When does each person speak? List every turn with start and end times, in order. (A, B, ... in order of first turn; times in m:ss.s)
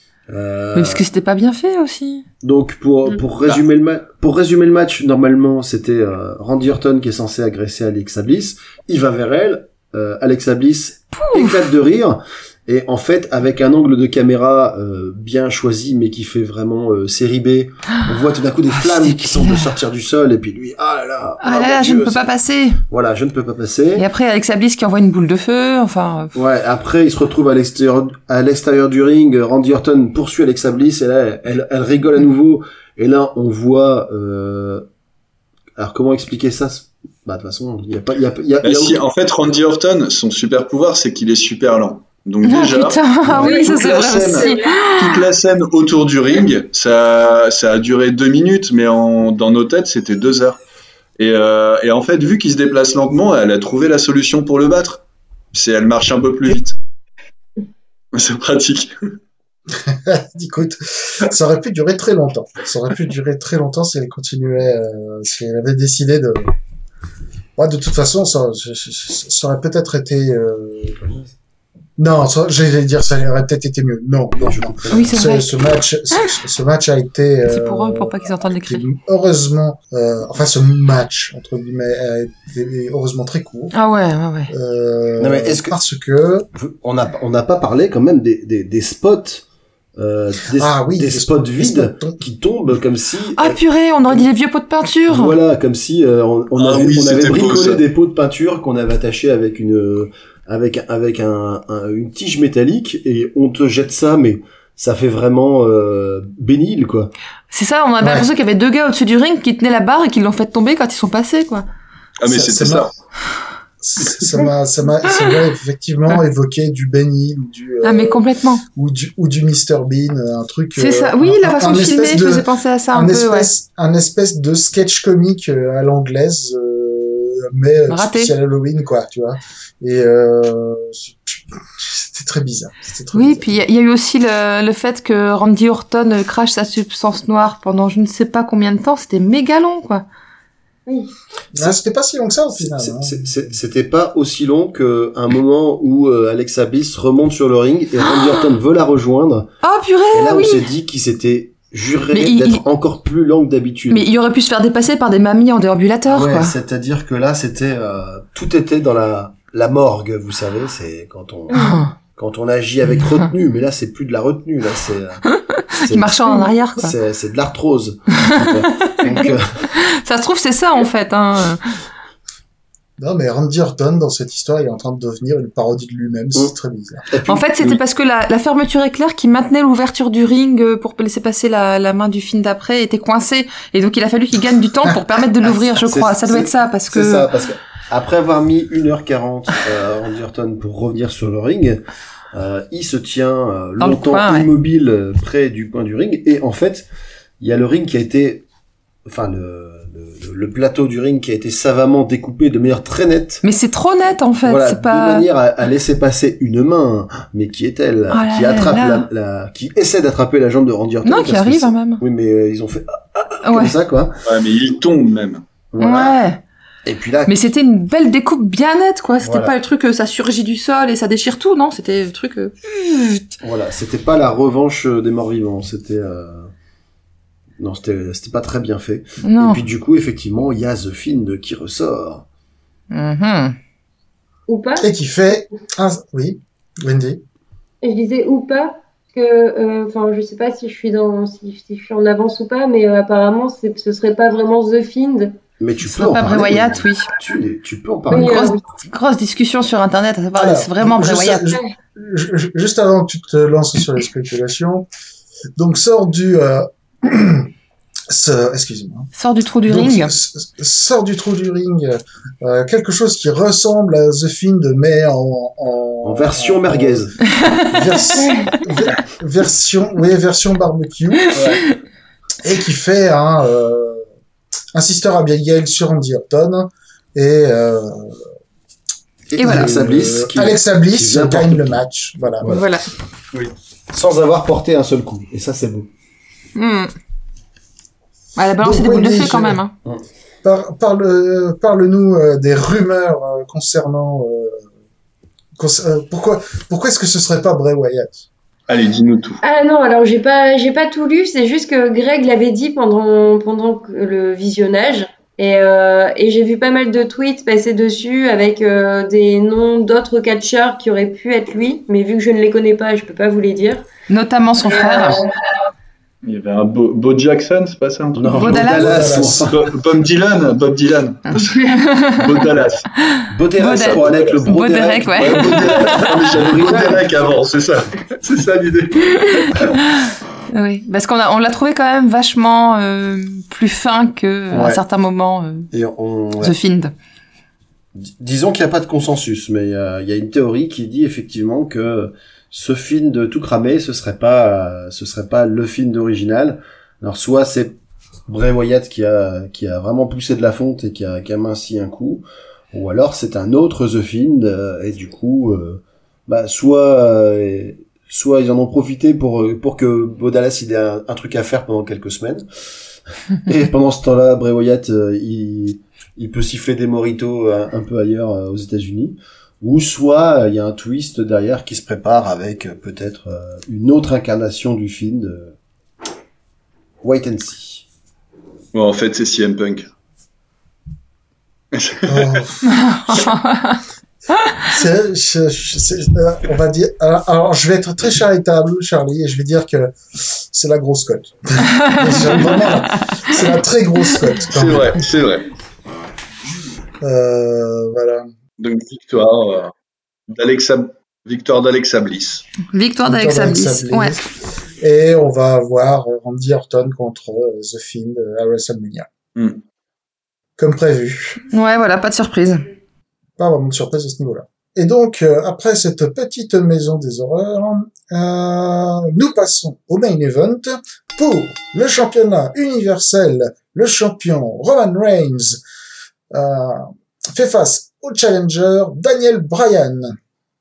0:00.3-0:01.0 A
0:00.7-0:02.2 B
0:02.4-0:22.3 A
0:11.2-0:11.6 B
0:18.8-0:19.7 B
0:21.4-0:22.8 B
0:22.9-0:24.1 A
0:24.0-0:26.3 B
0:26.3-0:34.8 A
0:35.8-0:39.0 A
0:38.6-0:50.6 C
0:42.4-0:45.2 B
0:43.2-0:43.7 A
0:43.4-0:44.6 D
0:51.2-0:56.8 C
0:58.1-0:58.9 C
0:59.7-1:06.5 E
1:07.6-1:11.0 E
1:11.0-1:11.3 A
1:12.0-1:23.8 E
1:14.4-1:15.2 A
1:14.9-1:15.5 B
1:17.4-1:18.9 B
1:23.7-1:24.5 B
1:24.5-1:26.5 E
1:25.2-1:25.8 A
1:26.6-1:29.4 A
1:30.0-1:34.3 A
1:30.6-1:32.2 E
1:33.4-1:35.4 B
1:35.1-1:47.1 A
1:36.6-1:37.8 C
1:47.5-1:51.7 B
1:48.0-1:48.3 E
1:52.2-1:52.9 C
1:52.3-1:52.9 E
1:53.8-1:58.2 E
1:57.8-1:58.6 B
1:58.7-2:13.5 E
2:00.8-2:03.5 B
2:07.9-2:08.3 B
2:13.1-2:20.0 B
2:21.5-2:23.6 E
2:22.6-2:29.5 A
2:29.6-2:30.7 B
2:30.1-2:34.1 A
2:32.1-2:32.6 B
2:33.9-2:36.6 B
2:36.1-2:45.2 A
2:41.5-2:41.9 B
2:45.3-2:46.9 B
2:45.8-2:49.7 A
2:48.2-2:51.6 B
2:53.0-2:57.0 E
2:57.1-2:57.8 A
2:57.3-3:07.3 B
3:05.4-3:11.8 A
3:12.3-3:16.9 A
3:13.8-3:14.5 B
3:17.4-3:18.5 A
3:19.1-3:23.4 A
3:23.4-3:25.3 B
3:24.4-3:34.2 A
3:28.1-3:29.1 B
3:31.0-3:32.0 B
3:33.4-3:33.8 B
3:34.3-3:35.4 C
3:35.7-3:36.2 A
3:35.8-3:36.4 B
3:36.8-3:37.4 A
3:37.3-3:43.3 B
3:39.2-3:39.6 A
3:43.4-3:46.5 A
3:47.6-3:52.2 A
3:49.2-3:49.6 B
3:52.9-3:53.6 B
3:54.5-3:54.9 D
3:54.8-3:57.2 E
3:57.8-4:05.4 D
4:05.6-4:08.5 A
4:05.8-4:07.1 B
4:08.1-4:11.5 B
4:08.1-4:08.6 D
4:10.4-4:14.9 E
4:15.6-4:17.5 E
4:18.1-4:19.1 E
4:19.2-4:20.1 B
4:19.7-4:31.6 E
4:26.0-4:27.2 A
4:31.4-4:31.6 C
4:32.4-4:34.0 E
4:34.7-4:38.2 E
4:39.3-4:41.8 A
4:39.4-4:39.7 B
4:39.4-4:42.5 E
4:42.4-4:42.7 A
4:42.4-4:42.9 B
4:43.9-4:45.9 A
4:46.6-4:46.9 B
4:48.4-4:49.7 B
4:48.6-4:49.6 E
4:50.4-4:54.6 E
4:55.6-4:58.3 E
4:58.7-4:59.4 C
4:59.4-5:13.9 D
5:14.1-5:15.2 B
5:14.7-5:15.3 D
5:16.2-5:18.5 C
5:18.2-5:19.6 A
5:18.3-5:18.9 B
5:18.6-5:19.5 E
5:19.5-5:22.9 C
5:21.6-5:22.3 B
5:23.1-5:26.6 B
5:23.3-5:27.0 A
5:23.7-5:24.5 C
5:25.2-5:29.8 C
5:29.5-5:35.7 B
5:34.5-5:34.8 A
5:35.7-5:36.6 A
5:36.4-5:36.9 B
5:38.0-6:02.5 A
6:03.3-6:15.6 A
6:17.0-6:17.9 A
6:18.7-6:19.9 C
6:21.7-6:22.4 C
6:22.1-6:23.3 E
6:22.7-6:23.8 B
6:24.7-6:35.1 E
6:31.8-6:33.2 B
6:34.5-6:35.5 C
6:37.0-6:38.3 E
6:38.6-6:39.7 C
6:40.3-6:42.4 C
6:42.7-6:44.2 B
6:43.0-6:44.3 E
6:44.8-6:49.1 E
6:49.4-6:49.6 C
6:50.6-6:51.4 E
6:51.5-6:52.7 B
6:53.4-7:05.6 E
7:06.3-7:10.2 E